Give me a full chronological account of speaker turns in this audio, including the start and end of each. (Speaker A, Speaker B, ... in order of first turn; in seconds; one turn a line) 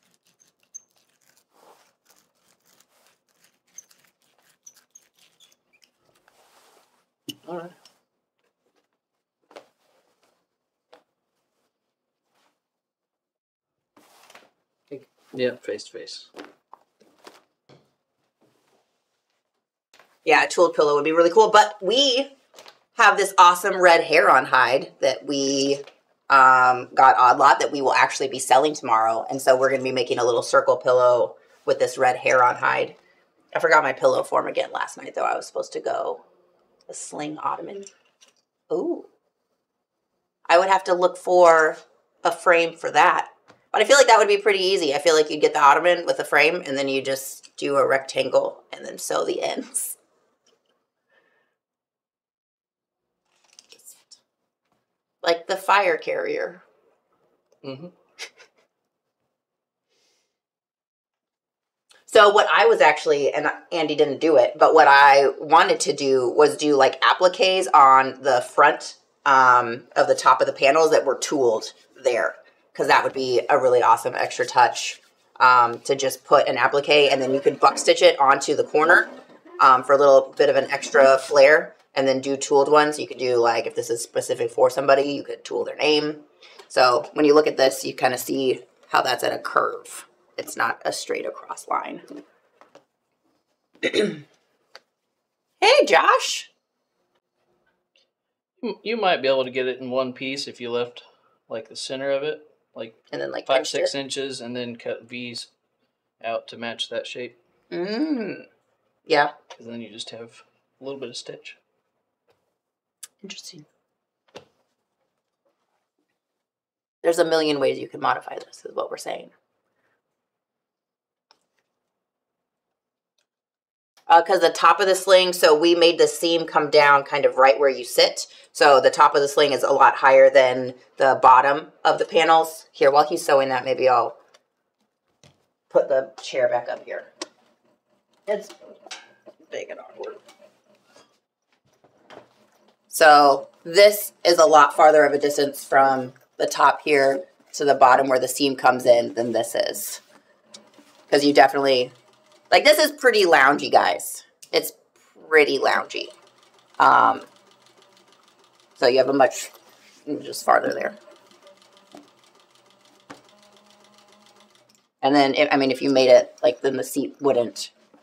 Speaker A: 7.4-7.7
Speaker A: 14.9-16.3
Speaker B: 20.2-22.3
Speaker B: 22.9-33.0
Speaker B: 33.5-36.2
Speaker B: 36.9-37.9
Speaker B: 38.7-39.1
Speaker B: 40.5-50.0
Speaker B: 53.7-54.2
Speaker B: 55.2-56.6
Speaker A: 57.6-57.9
Speaker B: 62.1-92.0
Speaker B: 93.8-94.2
Speaker B: 95.6-96.5
Speaker A: 98.6-105.5
Speaker B: 103.1-103.9
Speaker A: 106.2-107.4
Speaker B: 107.7-108.5
Speaker B: 109.1-109.3
Speaker A: 109.5-111.6
Speaker B: 113.2-113.7
Speaker B: 117.0-119.3
Speaker B: 124.1-134.2
Speaker B: 135.7-137.1
Speaker B: 138.3-138.5
Speaker B: 139.5-140.2
Speaker B: 142.9-150.0
Speaker B: 151.1-151.9
Speaker B: 152.5-156.1
Speaker B: 156.8-157.2
Speaker B: 158.8-159.5
Speaker B: 160.1-161.0
Speaker B: 165.0-167.7